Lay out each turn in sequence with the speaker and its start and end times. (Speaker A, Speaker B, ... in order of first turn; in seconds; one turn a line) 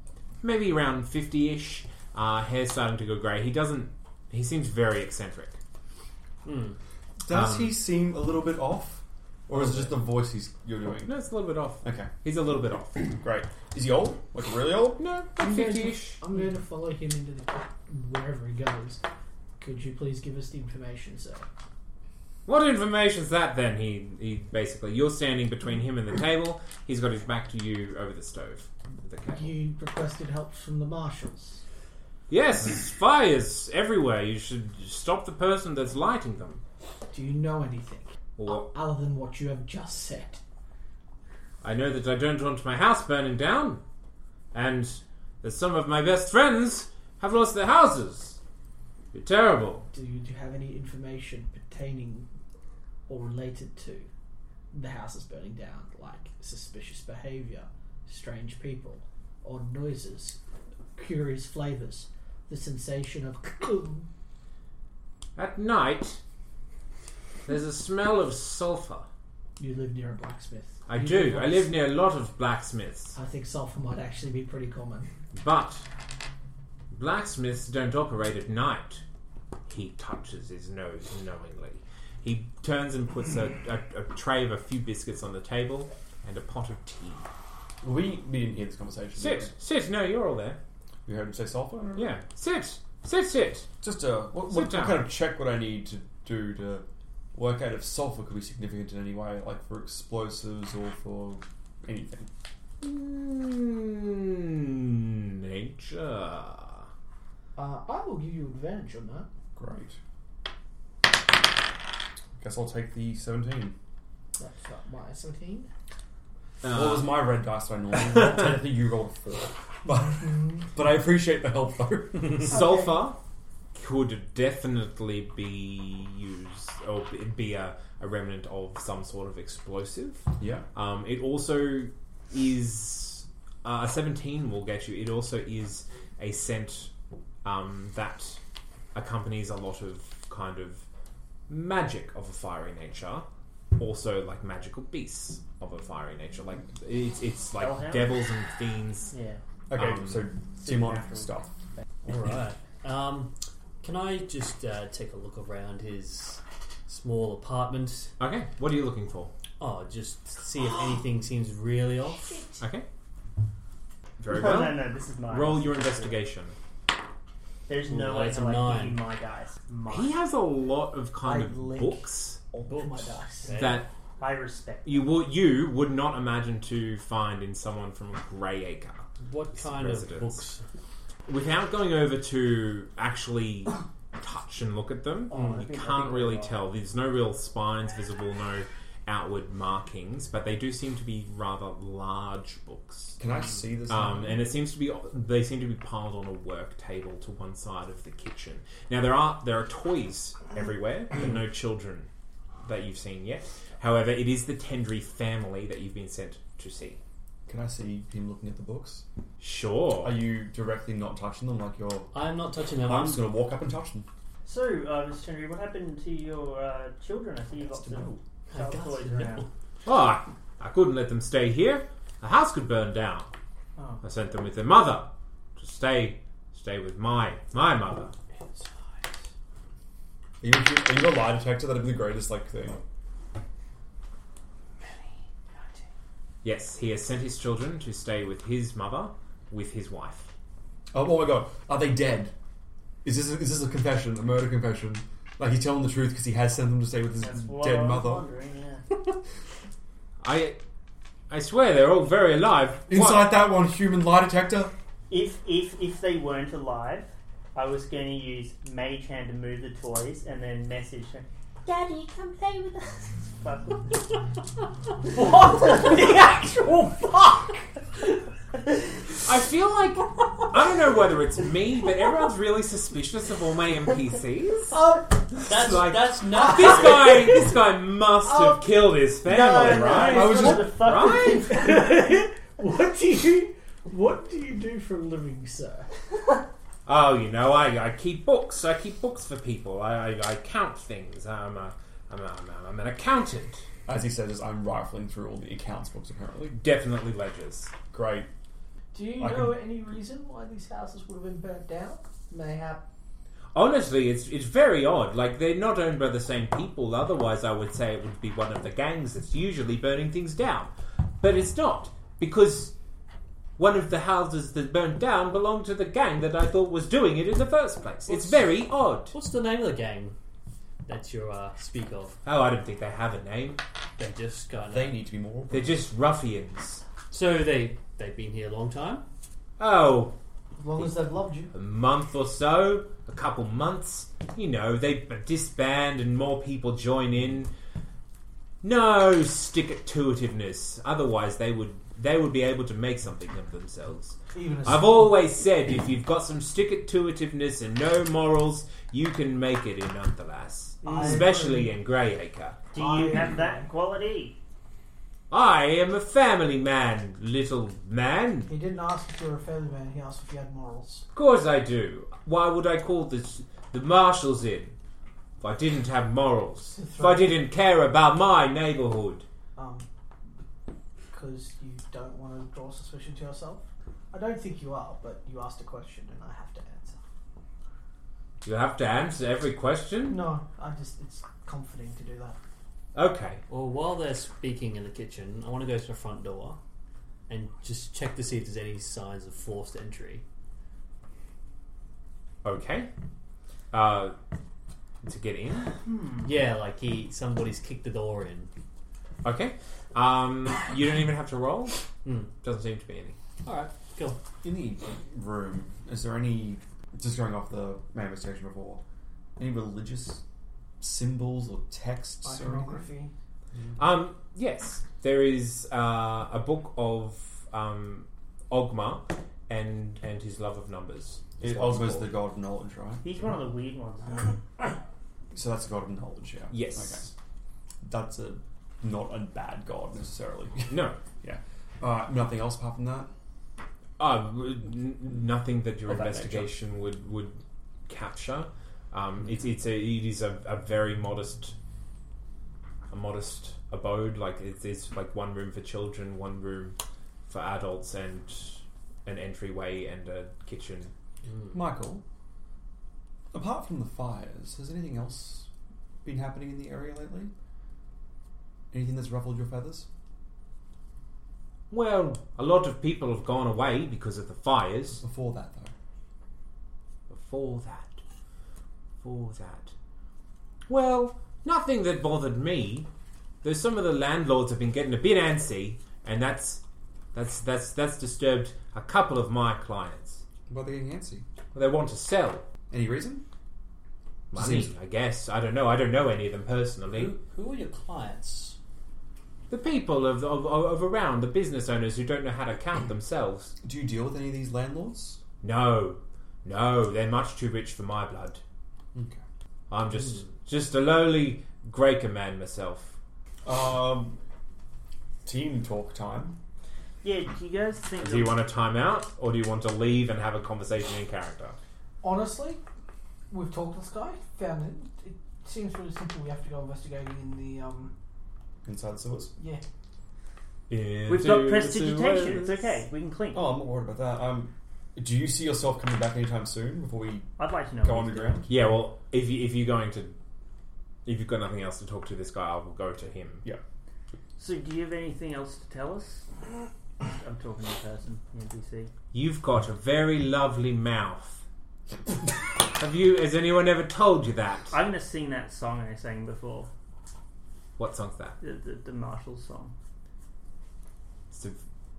Speaker A: 0.4-5.6
Speaker B: 6.4-6.8
Speaker C: 7.2-11.2
Speaker A: 7.3-7.8
Speaker A: 9.6-9.9
Speaker A: 11.0-13.2
Speaker C: 11.8-12.1
Speaker C: 13.2-15.0
Speaker A: 15.0-16.2
Speaker D: 15.4-19.0
Speaker D: 19.6-21.4
Speaker A: 22.4-29.5
Speaker D: 29.3-31.6
Speaker A: 32.3-36.6
Speaker D: 37.1-40.4
Speaker A: 38.4-38.7
Speaker A: 41.6-43.8
Speaker A: 44.5-48.4
Speaker A: 49.1-49.9
Speaker D: 49.9-52.3
Speaker D: 53.1-54.1
Speaker D: 54.7-60.4
Speaker D: 61.0-64.1
Speaker A: 65.3-66.2
Speaker A: 67.5-69.1
Speaker D: 69.6-71.7
Speaker A: 70.9-73.2
Speaker D: 73.2-75.1
Speaker A: 75.3-75.8
Speaker A: 76.9-79.0
Speaker A: 79.7-87.3
Speaker C: 87.8-89.5
Speaker A: 89.2-90.6
Speaker C: 91.1-92.1
Speaker A: 92.0-93.7
Speaker C: 93.8-102.3
Speaker A: 94.4-95.1
Speaker A: 102.8-106.9
Speaker D: 107.5-109.3
Speaker C: 109.5-110.0
Speaker C: 112.4-113.8
Speaker D: 114.4-115.7
Speaker A: 116.6-117.2
Speaker C: 116.6-122.5
Speaker A: 118.2-118.4
Speaker A: 122.3-123.2
Speaker D: 122.4-123.1
Speaker A: 123.7-136.9
Speaker C: 130.4-130.7
Speaker A: 137.4-138.4
Speaker A: 138.9-140.8
Speaker A: 141.5-143.2
Speaker A: 143.8-149.1
Speaker E: 147.6-148.2
Speaker E: 149.1-149.4
Speaker C: 149.7-151.5
Speaker A: 149.7-150.2
Speaker E: 150.6-151.3
Speaker B: 152.0-158.1
Speaker A: 158.2-159.3
Speaker B: 159.6-162.5
Speaker A: 162.6-162.8
Speaker A: 164.2-166.5
Speaker E: 164.3-166.2
Speaker E: 167.7-170.2
Speaker B: 167.8-169.0
Speaker A: 169.9-172.4
Speaker D: 171.2-173.5
Speaker B: 173.4-173.8
Speaker A: 173.5-173.9
Speaker E: 174.2-175.1
Speaker A: 174.8-180.4
Speaker B: 179.2-180.6
Speaker A: 181.2-193.2
Speaker E: 185.3-186.5
Speaker B: 185.3-185.8
Speaker C: 193.2-194.5
Speaker A: 193.9-202.1
Speaker A: 202.6-207.0
Speaker C: 207.5-209.0
Speaker A: 209.4-210.2
Speaker C: 210.0-212.1
Speaker B: 212.1-213.2
Speaker C: 212.8-214.1
Speaker E: 214.4-219.5
Speaker C: 217.6-218.2
Speaker B: 218.5-219.5
Speaker A: 219.8-223.3
Speaker E: 223.8-224.0
Speaker A: 224.0-228.1
Speaker C: 230.4-232.8
Speaker A: 236.4-240.3
Speaker C: 240.9-242.3
Speaker C: 243.0-248.2
Speaker E: 247.2-248.8
Speaker A: 250.2-250.6
Speaker A: 251.3-253.3
Speaker C: 252.9-254.7
Speaker E: 255.1-264.0
Speaker D: 265.1-267.6
Speaker A: 269.2-274.8
Speaker D: 274.7-275.1
Speaker A: 275.4-281.5
Speaker B: 275.4-277.2
Speaker D: 276.8-277.1
Speaker D: 278.2-278.6
Speaker E: 279.2-281.8
Speaker C: 279.9-280.8
Speaker D: 281.4-285.9
Speaker A: 286.9-293.6
Speaker C: 293.9-296.6
Speaker A: 296.5-297.7
Speaker C: 297.9-298.3
Speaker D: 298.9-302.8
Speaker C: 299.2-299.6
Speaker A: 303.5-312.7
Speaker A: 313.6-319.1
Speaker B: 318.1-318.4
Speaker B: 319.1-320.1
Speaker B: 320.9-322.1
Speaker A: 322.2-323.6
Speaker B: 324.0-325.0
Speaker C: 324.7-325.8
Speaker A: 325.5-326.8
Speaker B: 327.1-329.0
Speaker A: 329.6-330.1
Speaker D: 330.6-331.5
Speaker A: 331.5-337.5
Speaker A: 338.6-352.6
Speaker D: 344.3-345.2
Speaker E: 350.8-351.3
Speaker D: 350.8-351.8
Speaker E: 352.7-354.4
Speaker D: 352.7-353.7
Speaker A: 355.3-358.5
Speaker D: 358.5-361.1
Speaker A: 361.1-364.7
Speaker A: 365.4-369.2
Speaker D: 366.8-367.4
Speaker D: 369.5-369.9
Speaker D: 371.1-377.0
Speaker A: 378.4-380.2
Speaker D: 380.1-382.4
Speaker A: 382.9-383.4
Speaker B: 383.5-386.6
Speaker B: 387.3-390.2
Speaker A: 392.4-392.9
Speaker A: 393.7-394.1
Speaker A: 395.0-395.7
Speaker E: 395.8-396.3
Speaker B: 396.2-398.5
Speaker A: 399.2-401.8
Speaker A: 402.4-403.2
Speaker B: 403.4-404.2
Speaker C: 404.4-408.8
Speaker C: 409.4-410.2
Speaker C: 410.8-412.9
Speaker D: 412.2-413.1
Speaker A: 413.8-422.1
Speaker C: 421.4-423.1
Speaker E: 423.0-424.4
Speaker C: 425.3-427.1
Speaker A: 426.5-427.1
Speaker C: 427.8-433.1
Speaker A: 430.7-431.0
Speaker A: 434.0-441.5
Speaker C: 435.9-436.5
Speaker A: 442.9-446.8
Speaker A: 447.3-450.9
Speaker C: 451.5-452.0
Speaker C: 453.3-455.5
Speaker C: 456.0-457.3
Speaker C: 458.7-459.9
Speaker A: 461.7-465.0
Speaker C: 465.0-465.7
Speaker A: 467.1-468.0
Speaker A: 469.0-469.7
Speaker A: 470.7-472.9
Speaker A: 473.4-476.6
Speaker A: 477.1-480.2
Speaker C: 480.5-481.2
Speaker A: 481.5-482.4
Speaker C: 482.7-483.2
Speaker A: 484.3-487.1
Speaker C: 484.3-484.7
Speaker B: 486.9-488.6
Speaker A: 489.5-493.5
Speaker C: 493.6-495.2
Speaker A: 495.4-498.4
Speaker C: 498.9-499.2
Speaker A: 499.7-502.9
Speaker C: 503.4-504.2
Speaker C: 505.2-506.4
Speaker E: 507.0-508.4
Speaker A: 508.0-511.6
Speaker D: 512.0-512.6
Speaker D: 513.3-517.9
Speaker C: 518.6-519.3
Speaker D: 519.4-519.6
Speaker A: 520.7-522.8
Speaker E: 521.1-523.5
Speaker C: 523.3-527.3
Speaker E: 527.4-528.5
Speaker C: 527.8-528.5
Speaker A: 528.5-530.1
Speaker A: 531.0-533.4
Speaker E: 534.4-536.2
Speaker E: 537.2-538.9
Speaker A: 539.1-541.4
Speaker A: 542.7-544.7
Speaker E: 544.7-546.7
Speaker A: 547.8-548.4
Speaker E: 548.4-549.7
Speaker A: 551.3-551.6